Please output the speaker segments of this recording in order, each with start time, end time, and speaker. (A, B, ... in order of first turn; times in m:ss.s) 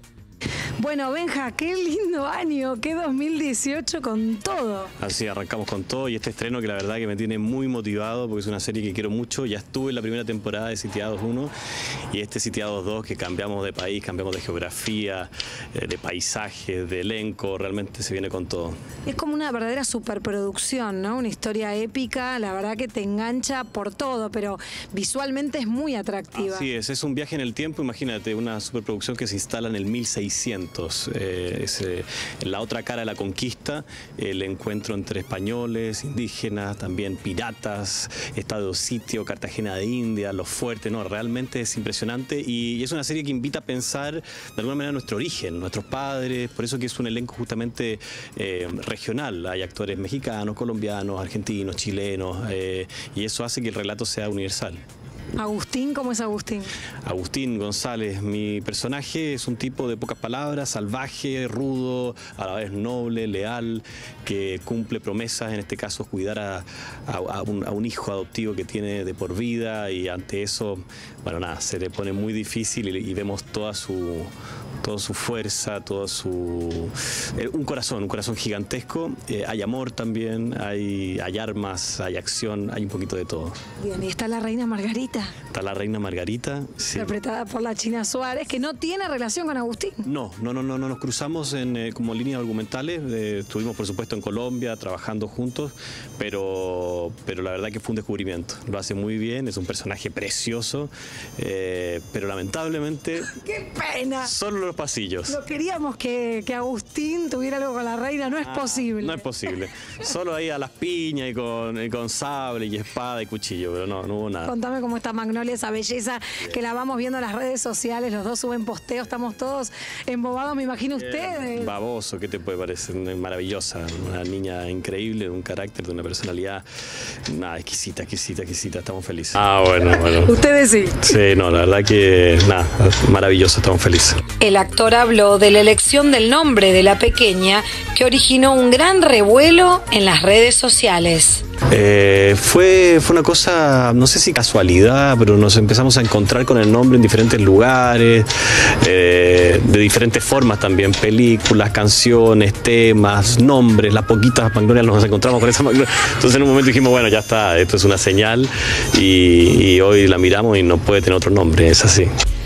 0:00.8-0:01.6 A
0:01.1-0:04.9 B
0:05.0-0:11.5 C
0:12.1-0:18.8 C
0:19.1-0:26.3 B
0:26.3-0:54.8 C
0:55.4-0:56.7 B
0:57.1-1:14.3 C
1:14.8-1:23.6 C
1:23.8-1:25.3 B
1:25.5-1:27.2 C
1:27.0-1:30.0 B
1:30.0-1:43.4 C
1:43.4-1:44.3 B
1:44.2-1:45.4 C
1:45.3-1:49.2 B
1:48.2-1:54.5 C
1:54.5-2:01.6 B
2:01.0-2:06.6 C
2:07.3-2:10.4 C
2:10.1-2:11.0 B
2:11.0-2:14.2 C
2:14.4-2:21.4 A
2:21.7-2:28.3 C
2:28.8-2:42.1 C